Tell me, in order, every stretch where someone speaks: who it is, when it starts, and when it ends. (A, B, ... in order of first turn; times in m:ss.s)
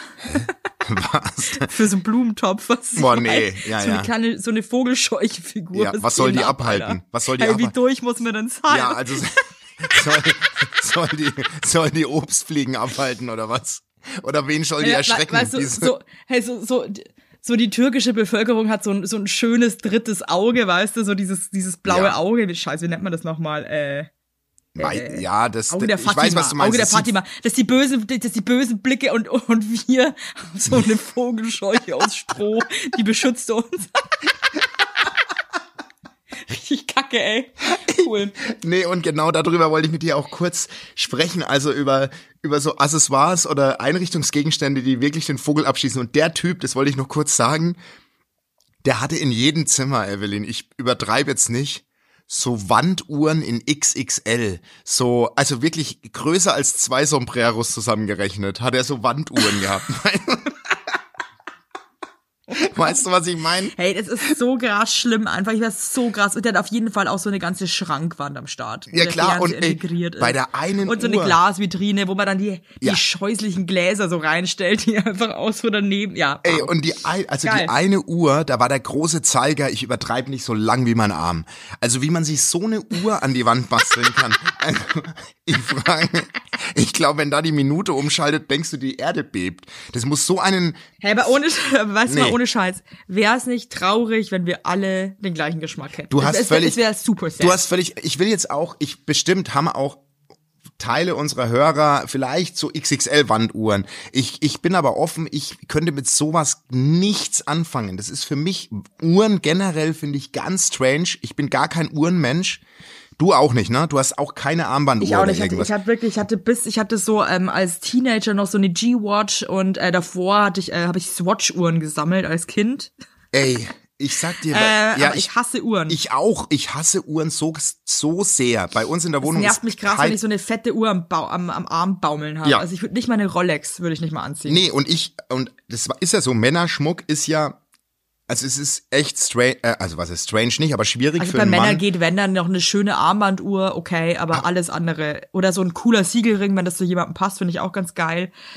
0:00.3-0:01.7 A
0:01.6-0:10.0 B
0:03.0-0:04.1 A
0:05.7-0:07.7 A
0:08.7-0:15.9 A
0:14.8-0:24.1 B
0:21.8-0:22.2 A
0:24.8-0:27.1 A
0:24.8-0:34.1 B
0:36.4-0:38.3 B
0:37.9-0:47.8 A
0:48.8-1:00.6 A
1:02.5-1:03.7 A
1:03.7-1:16.7 B
1:08.9-1:11.4 A
1:16.4-1:30.8 A
1:17.4-1:17.7 B
1:31.0-1:37.6 B
1:32.1-1:32.4 A
1:36.1-1:36.8 A
1:37.4-1:40.0 A
1:40.8-1:52.6 A
1:53.2-1:55.7 A
1:55.0-2:02.9 B
2:03.3-2:05.3 A
2:04.4-2:06.0 B
2:05.9-2:10.2 A
2:09.2-2:14.6 B
2:14.4-2:17.6 A
2:18.3-2:21.8 A
2:21.2-2:28.3 B